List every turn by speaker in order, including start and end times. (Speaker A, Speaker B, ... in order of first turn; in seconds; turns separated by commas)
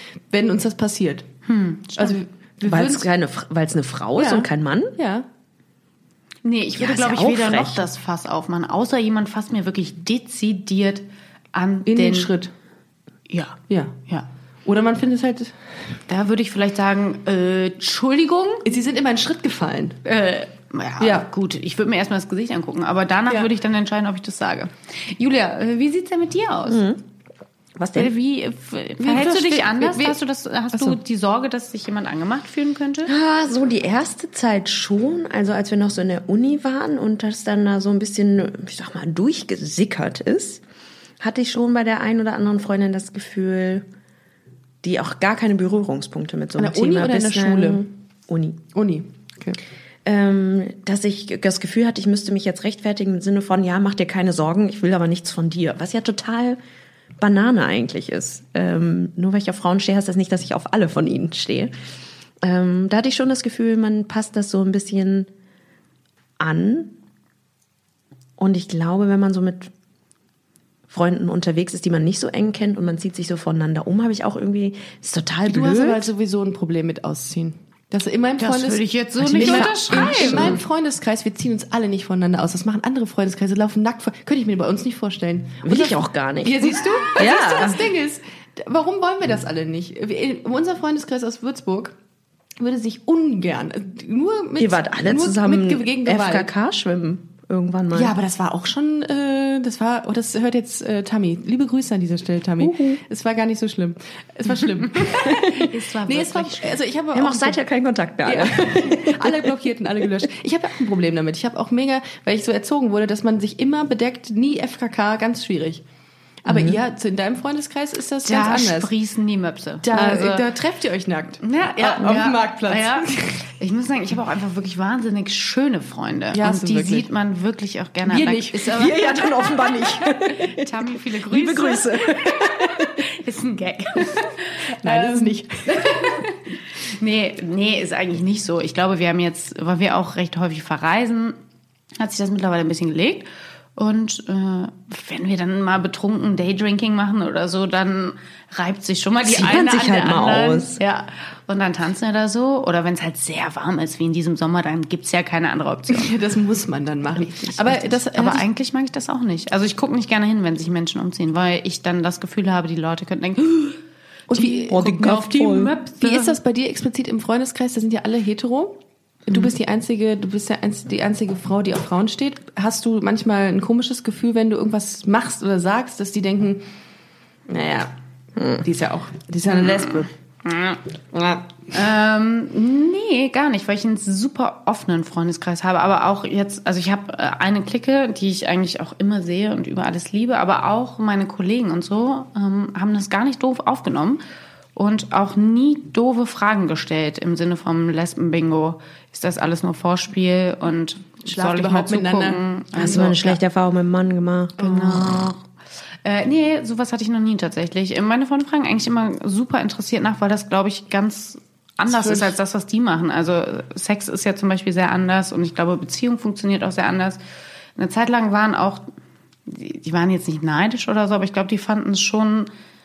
Speaker A: 0.3-1.3, Speaker B: 1.5-2.2, Speaker A: 2.0-3.1, Speaker C: 2.6-5.0, Speaker A: 4.2-5.3, Speaker B: 6.4-12.3, Speaker C: 6.8-7.8, Speaker A: 11.8-12.5, Speaker B: 13.3-14.3, Speaker A: 13.7-14.0, Speaker A: 14.7-15.6, Speaker B: 16.1-18.6, Speaker A: 18.6-20.0, Speaker B: 20.1-26.9, Speaker A: 21.0-21.3, Speaker C: 26.7-27.0, Speaker C: 27.8-28.1, Speaker B: 28.0-33.1, Speaker A: 29.0-30.2, Speaker C: 33.1-40.6, Speaker C: 41.2-43.9, Speaker C: 44.8-48.6, Speaker A: 46.6-47.9, Speaker A: 48.7-49.6, Speaker C: 50.0-56.6, Speaker C: 57.2-61.7, Speaker C: 62.4-65.3, Speaker C: 66.4-67.0, Speaker C: 68.4-69.7, Speaker C: 70.9-76.1, Speaker A: 75.5-92.0, Speaker B: 78.4-80.6, Speaker C: 79.2-80.6, Speaker C: 85.6-87.8, Speaker A: 92.6-96.5, Speaker C: 94.6-98.1, Speaker A: 97.9-107.6, Speaker C: 102.6-103.0, Speaker B: 105.0-106.8, Speaker C: 107.1-109.5, Speaker A: 108.2-115.8, Speaker A: 116.4-118.9, Speaker C: 116.5-116.8, Speaker B: 118.2-120.5, Speaker A: 119.8-123.5, Speaker B: 121.4-129.6, Speaker A: 126.3-127.1, Speaker A: 128.1-129.8, Speaker C: 128.8-133.0, Speaker B: 130.3-141.4, Speaker A: 134.7-136.2, Speaker B: 142.0-156.2, Speaker C: 149.2-150.8, Speaker A: 155.9-158.4, Speaker B: 157.4-163.8, Speaker A: 164.3-164.8, Speaker B: 164.3-166.4, Speaker C: 164.7-165.8, Speaker A: 166.0-176.7, Speaker A: 177.5-180.1, Speaker B: 179.5-180.8, Speaker A: 181.1-181.4, Speaker B: 181.7-194.2, Speaker B: 194.8-203.4, Speaker A: 201.3-203.1, Speaker C: 202.8-205.4, Speaker B: 204.6-205.4, Speaker B: 206.0-217.2, Speaker A: 211.9-212.4, Speaker B: 217.8-218.9, Speaker B: 219.5-222.5